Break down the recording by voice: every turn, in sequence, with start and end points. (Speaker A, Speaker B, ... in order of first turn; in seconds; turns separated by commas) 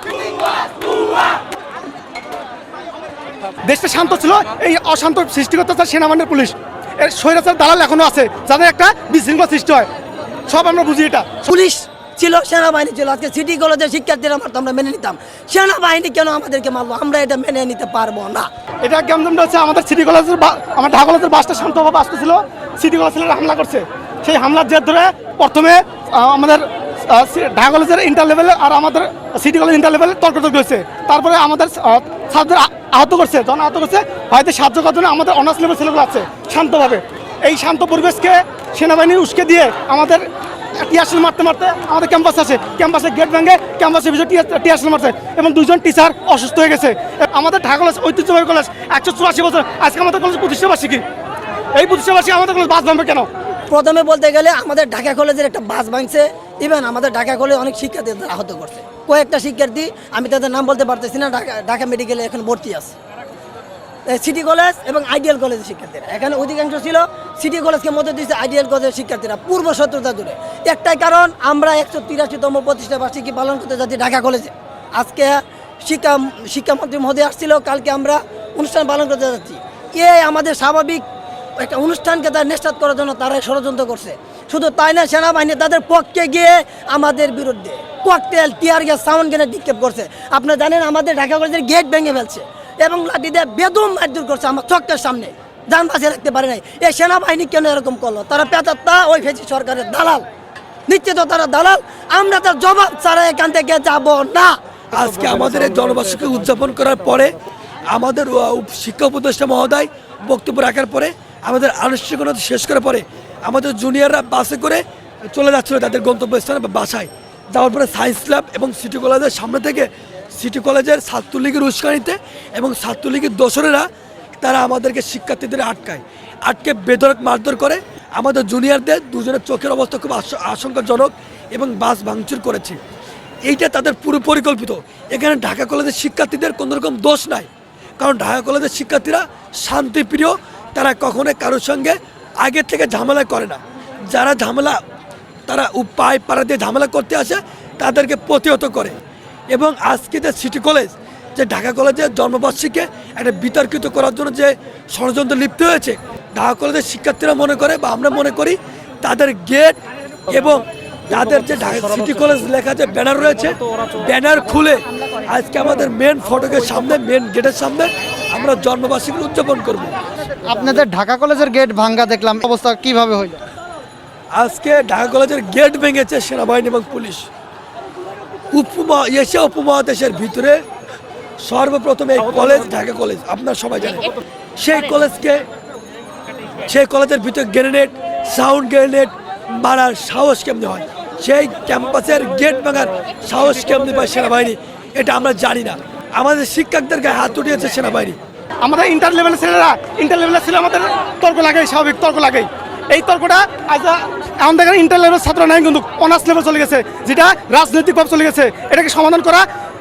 Speaker A: 3.6-9.9, Speaker A: 10.5-11.4, Speaker B: 11.4-18.5, Speaker A: 18.8-51.0, Speaker A: 51.8-53.3, Speaker B: 53.7-62.9, Speaker B: 64.1-81.0, Speaker B: 81.6-100.2, Speaker B: 100.9-104.5, Speaker C: 104.9-123.9, Speaker C: 124.4-132.8, Speaker C: 133.4-137.5, Speaker C: 138.0-144.8, Speaker C: 145.5-149.0, Speaker C: 149.5-159.8, Speaker C: 160.3-169.9, Speaker D: 170.4-173.4, Speaker C: 174.3-177.2, Speaker C: 178.5-180.6, Speaker C: 181.4-185.4, Speaker C: 186.7-198.2, Speaker A: 198.6-209.4